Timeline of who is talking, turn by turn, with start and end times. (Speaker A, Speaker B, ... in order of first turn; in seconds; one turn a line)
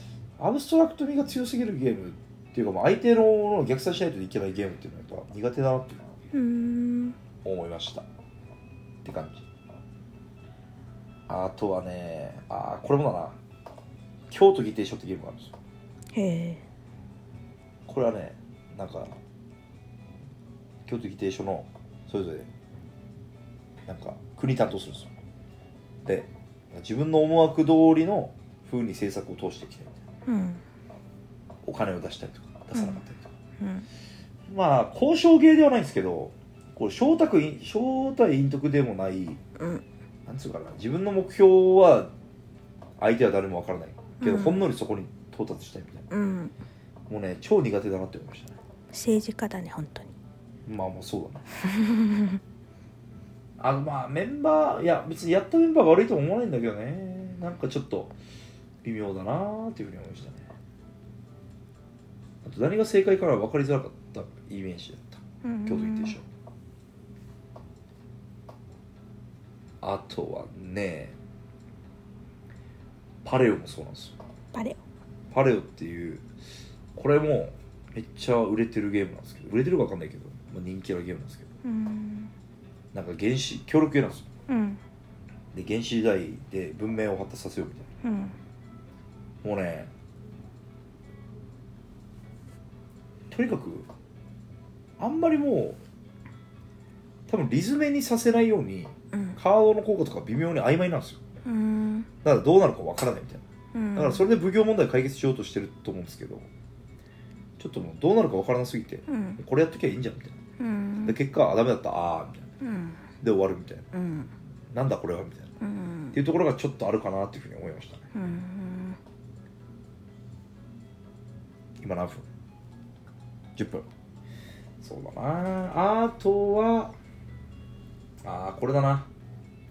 Speaker A: 0.4-6.1
Speaker B: 6.3-7.2
Speaker A: 7.4-8.1
Speaker A: 9.0-9.5
Speaker A: 11.3-13.4
Speaker A: 14.3-15.6
Speaker B: 16.1-16.6
Speaker A: 17.9-19.2
Speaker A: 20.9-22.5
Speaker A: 23.9-25.1
Speaker A: 26.1-29.9
Speaker B: 30.3-30.6
Speaker A: 31.6-33.3
Speaker B: 32.7-33.0
Speaker B: 33.6-33.9
Speaker A: 34.5-39.4
Speaker B: 39.6-39.8
Speaker A: 40.3-42.1
Speaker A: 43.0-46.1
Speaker B: 44.2-44.7
Speaker B: 46.1-46.5
Speaker A: 47.1-48.6
Speaker B: 48.9-50.1
Speaker A: 50.7-51.5
Speaker B: 51.7-52.4
Speaker A: 53.6-58.1
Speaker A: 58.8-60.5
Speaker A: 62.4-66.2
Speaker B: 65.4-66.2
Speaker A: 69.8-71.2
Speaker A: 73.2-74.2
Speaker B: 74.5-74.8
Speaker A: 75.3-76.3
Speaker A: 77.0-81.5
Speaker B: 81.6-82.3
Speaker A: 82.9-84.3
Speaker B: 84.5-84.8
Speaker A: 85.5-87.9
Speaker B: 88.0-88.4
Speaker A: 89.4-89.9
Speaker A: 93.3-93.9
Speaker A: 95.0-95.8
Speaker A: 97.3-101.2
Speaker B: 99.1-99.4
Speaker B: 101.5-102.1
Speaker A: 102.2-103.4
Speaker B: 103.7-104.3
Speaker A: 104.0-106.5
Speaker A: 107.6-110.4
Speaker B: 109.1-109.4
Speaker B: 110.6-111.2
Speaker A: 111.0-112.5
Speaker B: 112.6-113.0
Speaker A: 113.2-113.9
Speaker B: 113.9-114.3
Speaker A: 114.7-115.5
Speaker B: 115.6-116.2
Speaker A: 116.1-118.1
Speaker B: 118.1-119.0
Speaker A: 121.8-122.2
Speaker A: 123.6-123.9
Speaker A: 124.8-126.9
Speaker A: 128.2-129.1